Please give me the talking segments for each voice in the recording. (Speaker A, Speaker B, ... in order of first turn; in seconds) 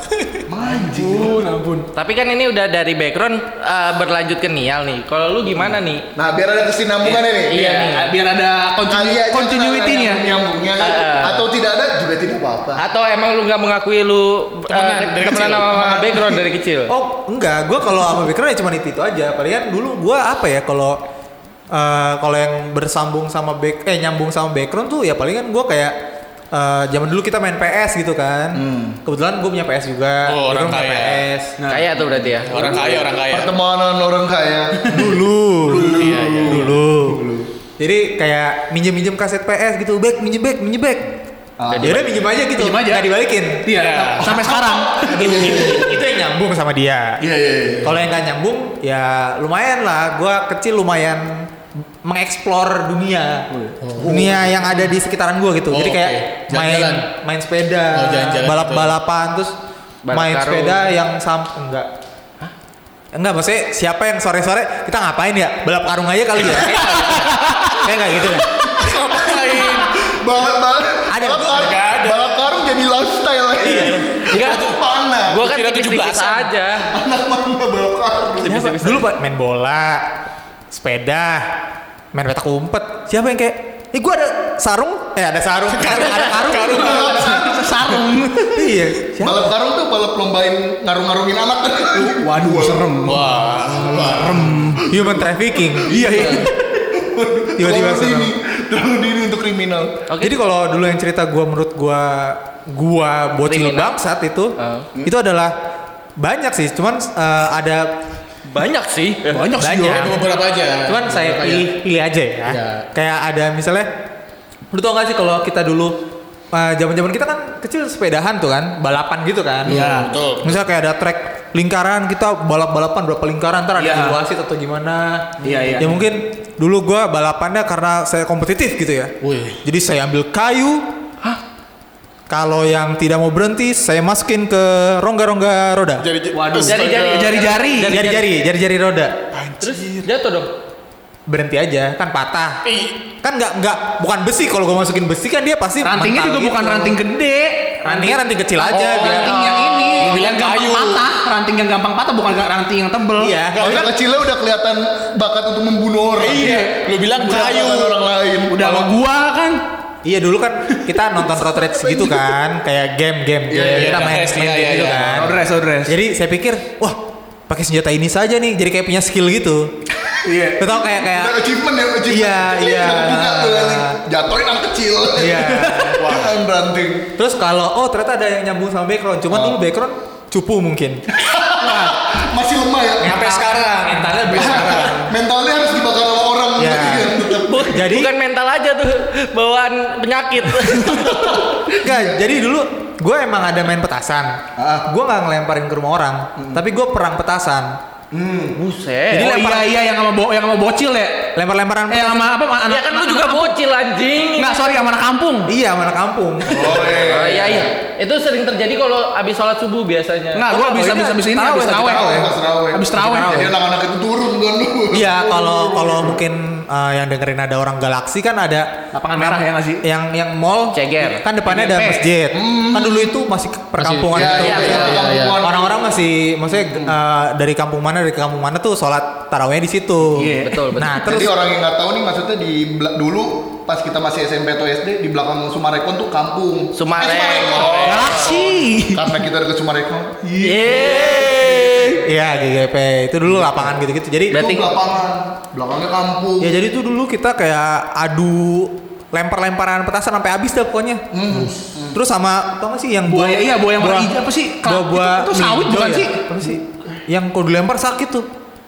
Speaker A: 0.5-1.4, 6.2-7.6, 8.9-12.8, 14.8-16.4, 28.5-29.0, 32.5-37.5, 41.6-42.1, 44.4-46.0, 47.2-48.0, 54.0-54.3, 68.8-75.5, 76.9-78.7, 86.8-87.7, 89.2-99.9, 153.6-158.6, 163.5-164.2, 170.3-177.1, 181.1-183.2, 184.3-187.7, 190.9-192.2, 194.6-194.9, 198.1-198.6, 206.5-207.7, 211.8-216.2, 222.3-223.2, 224.1-225.8, 226.7-226.9, 231.0-242.0, 244.3-246.6, 251.1-252.0
Speaker B: 0.8-1.9, 30.3-33.5, 35.9-36.7, 43.8-44.3, 53.5-54.6, 55.7-57.1, 57.9-58.9, 66.5-67.8, 68.6-70.0, 71.4-72.4, 73.6-74.8, 75.4-76.5, 85.7-87.5, 93.0-94.5, 109.9-111.7, 112.5-112.8, 119.7-120.6, 125.5-125.9, 129.2-129.6, 136.0-137.6, 139.3-140.1, 142.6-143.0, 148.7-151.1, 153.5-153.9, 156.2-158.0, 158.6-158.9, 163.6-165.2, 176.0-176.3, 183.1-184.9, 206.6-207.0, 223.8-225.4, 237.6-238.1
Speaker C: 1.9-6.0, 7.0-8.1, 10.8-11.5, 12.8-16.9, 31.7-32.8, 41.7-42.1, 60.0-60.8, 73.6-74.7, 75.3-76.9, 78.4-79.0, 100.1-100.4, 103.5-104.0, 104.6-104.9, 108.5-109.5, 136.6-138.2, 139.6-140.5, 187.5-191.4, 198.5-199.3, 202.7-204.8, 207.0-210.5, 220.7-221.2, 224.4-225.0, 230.4-231.2, 236.7-238.4, 240.4-242.0, 244.3-244.6
Speaker D: 7.5-10.3, 42.5-43.1, 43.6-45.8, 86.9-88.8, 91.9-93.4, 94.0-95.0, 109.3-110.2, 119.7-120.1, 123.8-124.2, 125.4-126.0, 136.3-138.1, 145.8-153.4, 156.3-156.7, 158.5-159.6, 165.1-166.0, 170.3-170.6, 199.1-201.3, 201.9-203.6, 204.4-205.5, 210.3-213.5, 218.9-219.8, 221.5-222.1, 230.1-230.6, 237.9-239.2, 253.1-256.2
Speaker E: 16.9-21.0, 21.7-25.9, 26.5-31.6, 34.9-37.2, 37.8-41.2, 41.8-47.3, 47.8-59.6, 60.1-61.9, 63.1-68.5, 71.1-71.7, 78.5-80.1, 80.7-81.6, 82.1-87.2, 88.5-89.5, 94.9-96.5, 97.6-98.3, 100.2-105.5, 106.2-108.0, 109.6-110.3, 110.8-113.9, 114.7-116.0, 116.5-119.8, 120.4-130.9, 132.3-136.1, 137.9-139.2, 141.3-142.7, 143.2-147.0, 147.8-149.4, 153.2-153.9, 160.0-169.7, 170.6-171.4, 172.1-174.0, 175.2-176.2, 177.2-181.0, 183.0-185.1, 186.6-188.1, 191.8-197.8, 199.1-199.7, 201.4-202.3, 205.5-206.9, 210.5-212.3, 212.9-213.5, 214.9-231.4, 242.0-244.6, 246.4-251.1, 251.9-258.3